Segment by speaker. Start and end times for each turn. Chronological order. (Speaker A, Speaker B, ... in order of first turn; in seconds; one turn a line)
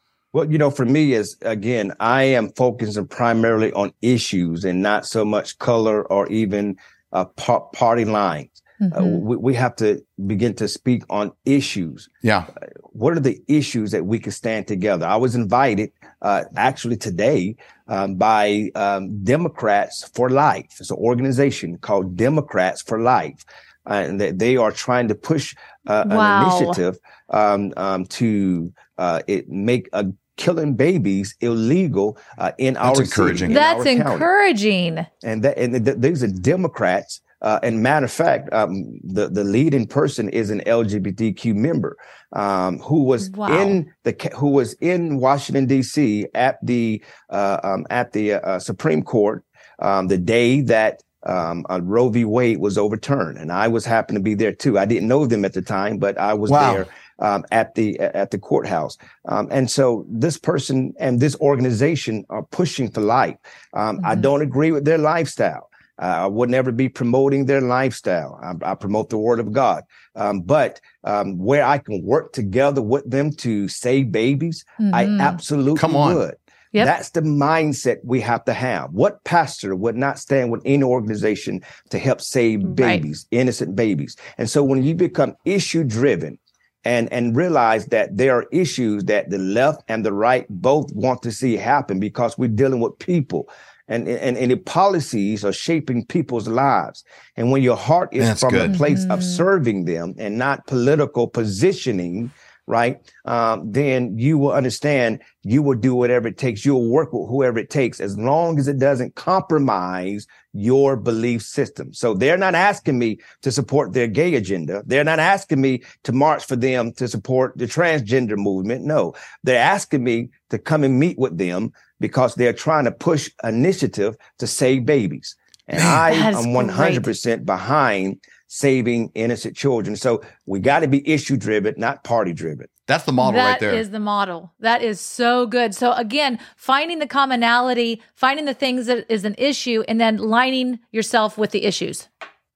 Speaker A: 0.3-12.1
Speaker B: 8.8-9.2
Speaker A: 12.9-34.3
Speaker B: 26.1-26.8
Speaker C: 32.8-33.5
Speaker B: 33.5-35.1
Speaker A: 35.2-132.7
Speaker B: 43.2-43.8
Speaker C: 56.5-56.9
Speaker B: 74.8-75.4
Speaker C: 75.8-76.2
Speaker B: 82.7-83.0
Speaker C: 98.2-98.7
Speaker B: 98.7-99.4
Speaker B: 126.1-127.1
Speaker C: 132.9-133.8
Speaker B: 133.2-142.1